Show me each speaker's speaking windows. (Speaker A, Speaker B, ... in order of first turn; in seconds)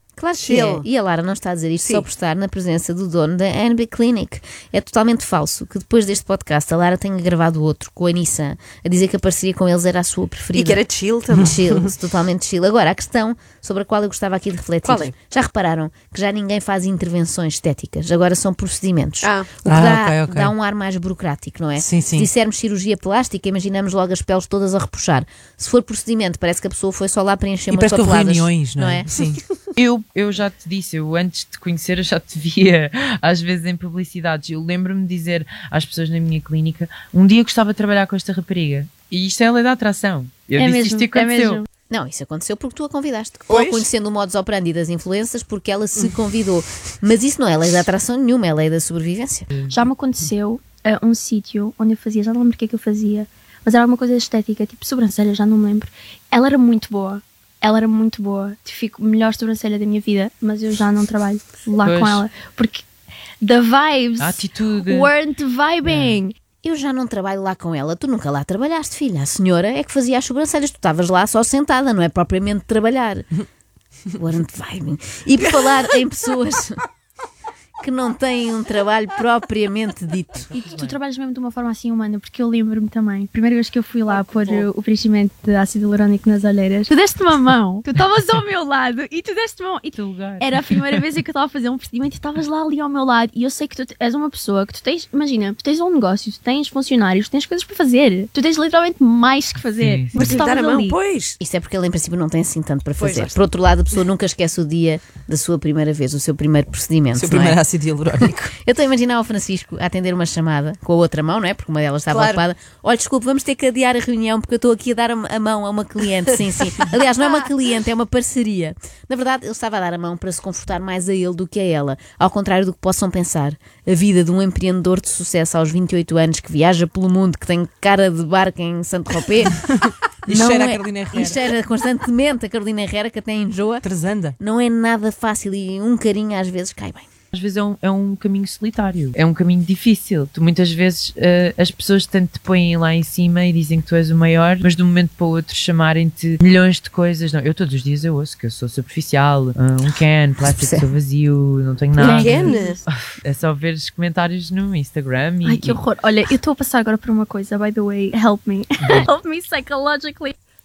Speaker A: 0.2-29.1, 41.9-49.5, 66.6-73.3, 74.2-76.8, 77.8-80.5, 101.4-107.6, 108.2-129.6, 130.3-133.8, 134.4-137.1, 150.4-150.8
Speaker B: 0.4-0.8, 1.8-2.1, 10.5-11.9, 14.8-15.2, 19.2-19.6, 43.5-43.9, 84.1-84.7, 100.2-101.4, 103.0-103.4, 112.1-112.4, 152.0-152.8
Speaker C: 19.6-20.5, 21.8-22.3, 27.7-29.4, 107.2-108.5, 130.3-131.4, 133.8-134.3
Speaker D: 29.8-41.6, 61.8-62.2, 64.2-65.1, 65.8-66.2, 80.4-81.0, 89.9-90.6, 99.8-100.4, 137.3-155.8, 158.8-159.1
Speaker E: 40.6-41.6, 49.7-62.9, 63.4-66.3, 80.5-101.0, 152.0-152.8, 155.4-160.3